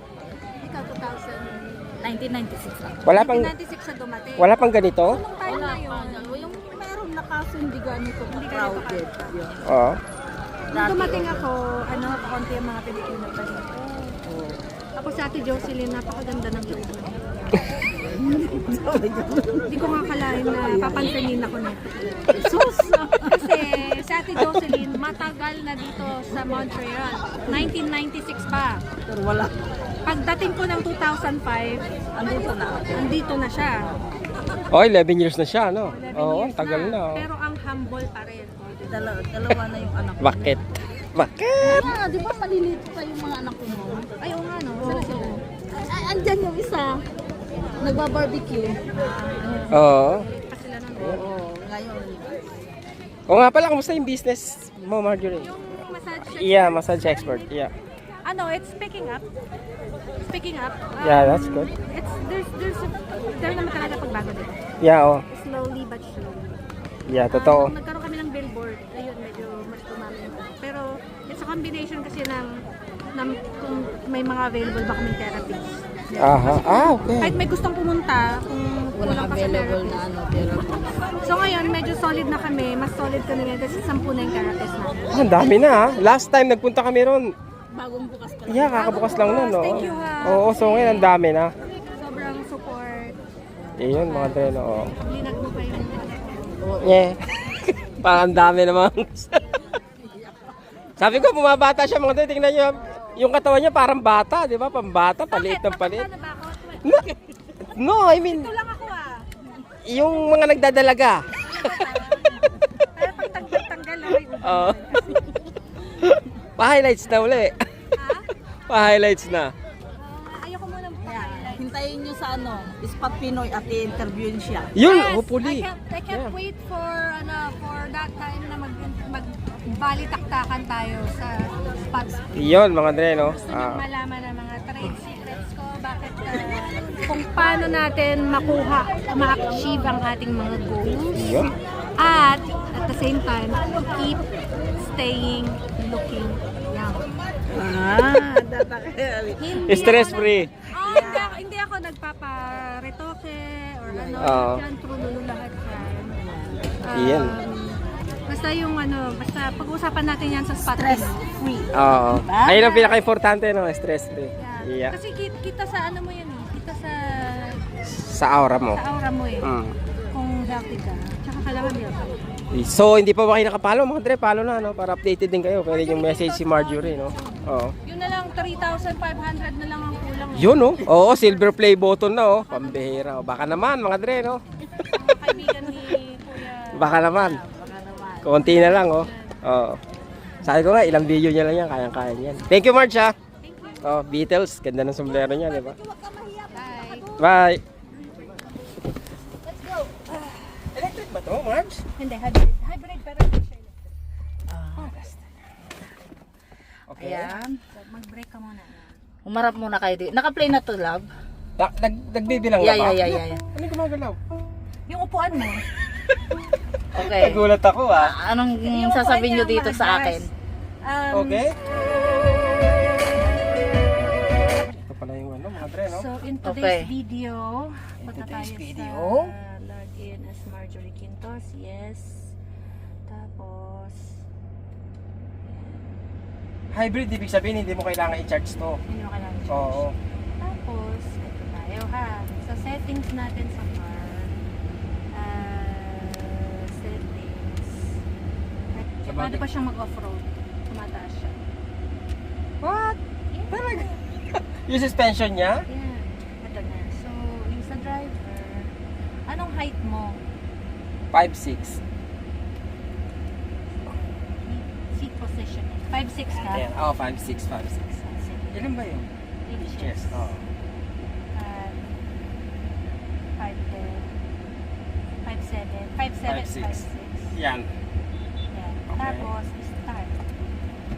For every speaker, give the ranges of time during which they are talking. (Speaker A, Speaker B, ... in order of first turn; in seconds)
Speaker A: 0.6-1.9, 3.1-4.5, 5.1-6.7, 8.3-9.3, 10.7-14.2, 15.0-17.8, 19.7-22.0, 23.1-28.8, 30.0-33.8, 35.9-39.1, 44.2-45.4, 48.9-51.2, 55.4-57.5, 58.2-59.2, 60.2-64.7, 65.3-66.6, 67.3-72.6, 73.1-75.8, 76.4-80.0, 81.2-85.2, 88.7-91.1, 91.9-93.2, 93.9-96.7, 105.3-106.9, 108.2-109.2, 111.4-112.4, 112.9-115.3, 118.0-118.3, 120.0-121.6, 124.8-132.5, 133.2-141.2, 142.0-144.2, 144.7-147.1, 149.4-156.2, 156.8-161.2, 162.5-163.0, 164.4-167.5, 168.7-169.5, 170.1-172.2, 175.7-181.4, 182.4-183.2, 184.8-187.0, 188.3-189.4, 193.4-194.0, 196.5-197.2, 199.4-200.5, 202.0-203.9, 204.8-205.2, 205.9-206.1, 207.7-209.0, 214.9-215.6, 218.6-220.3, 220.8-221.4, 225.9-232.3, 233.1-234.2, 235.4-236.0, 238.9-244.3, 245.1-247.9, 248.7-251.4, 253.3-254.0, 255.7-258.7, 259.3-260.2, 264.4-266.6, 267.8-268.6, 269.4-270.3, 271.3-272.0, 273.4-274.1, 275.2-277.3, 278.5-280.2
Speaker B: 2.0-3.0, 5.4-9.6, 10.7-11.4, 14.2-14.6, 18.0-19.7, 20.5-21.2, 22.2-23.4, 29.1-29.5, 32.1-33.1, 38.9-40.6, 41.6-44.1, 44.8-47.0, 47.8-48.8, 51.0-52.4, 76.1-76.5, 78.9-81.1, 87.7-90.1, 96.6-96.9, 121.0-124.7, 147.5-150.0, 150.9-151.4, 153.9-154.4, 156.2-156.7, 160.6-162.6, 187.1-188.6, 196.0-197.3, 204.5-204.9, 207.0-207.6, 209.2-211.1, 212.6-213.4, 216.9-217.4, 217.9-220.3, 226.4-226.8
Speaker C: 3.0-3.5, 4.4-5.2, 9.6-10.0, 34.7-37.3, 40.2-41.9, 49.7-50.2, 53.3-55.5, 56.3-57.7, 61.0-61.7, 64.8-65.2, 67.1-67.7, 76.2-77.4, 85.1-87.3, 88.5-91.5, 93.8-94.9, 96.8-99.6, 101.0-106.1, 106.8-108.5, 109.8-111.8, 114.4-114.8, 116.0-117.6, 118.7-119.5, 124.7-126.3, 132.3-133.8, 141.1-141.5, 149.7-150.5, 154.2-154.6, 156.9-157.3, 161.7-164.9, 167.8-168.8, 169.4-169.8, 172.5-177.7, 180.3-184.4, 186.7-187.4, 188.2-189.8, 190.4-193.2, 193.8-195.8, 197.2-197.6, 200.7-201.8, 206.9-207.3, 211.6-214.2, 216.9-218.1, 221.1-221.5, 224.7-226.0, 228.0-229.3, 236.7-238.8, 239.5-239.9, 249.1-249.4, 252.6-253.0, 253.5-255.6, 261.1-261.8, 266.3-267.8, 268.5-270.4, 276.3-277.7, 278.9-279.3